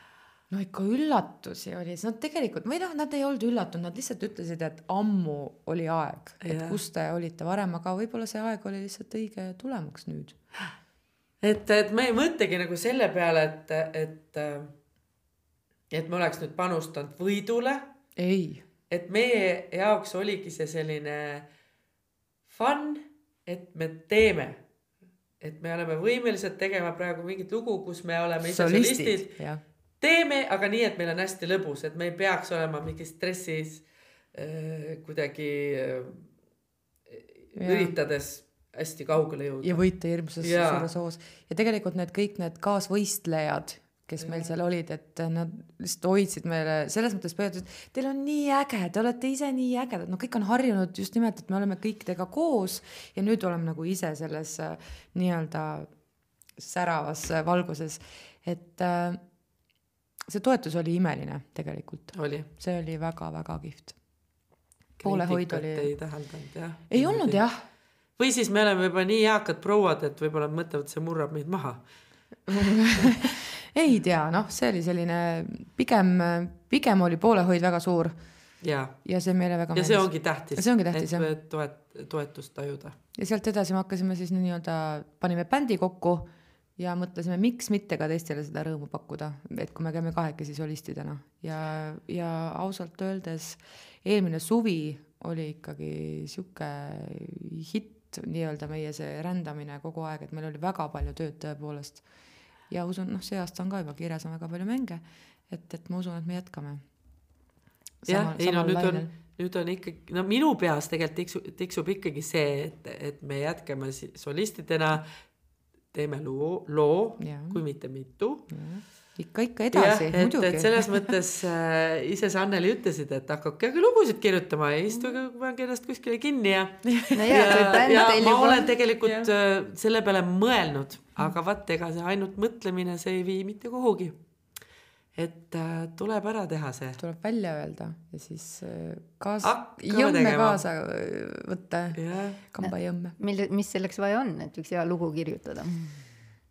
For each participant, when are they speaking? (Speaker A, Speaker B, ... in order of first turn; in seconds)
Speaker A: 0.5-10.4, 18.2-18.6, 28.4-29.6, 37.6-38.0, 39.6-55.9, 56.6-59.2, 60.3-64.0, 65.0-65.9, 66.9-67.5, 72.5-78.2, 79.0-81.3, 83.2-102.0, 102.7-106.8, 108.0-109.1, 117.2-117.6, 118.5-121.1, 126.9-127.6, 129.0-129.3, 137.0-143.2
Speaker B: 6.4-6.8, 11.4-14.7, 15.9-17.9, 18.9-21.5, 22.5-24.6, 25.4-29.3, 30.0-36.3, 37.1-39.8, 40.4-40.9, 44.2-44.5, 62.1-62.5, 65.0-67.4, 68.2-71.8, 78.6-79.0, 79.7-83.0, 108.1-115.1, 115.9-118.5, 119.7-134.2, 135.2-137.0, 139.4-140.6, 141.9-142.4
Speaker C: 127.1-128.7, 142.6-146.0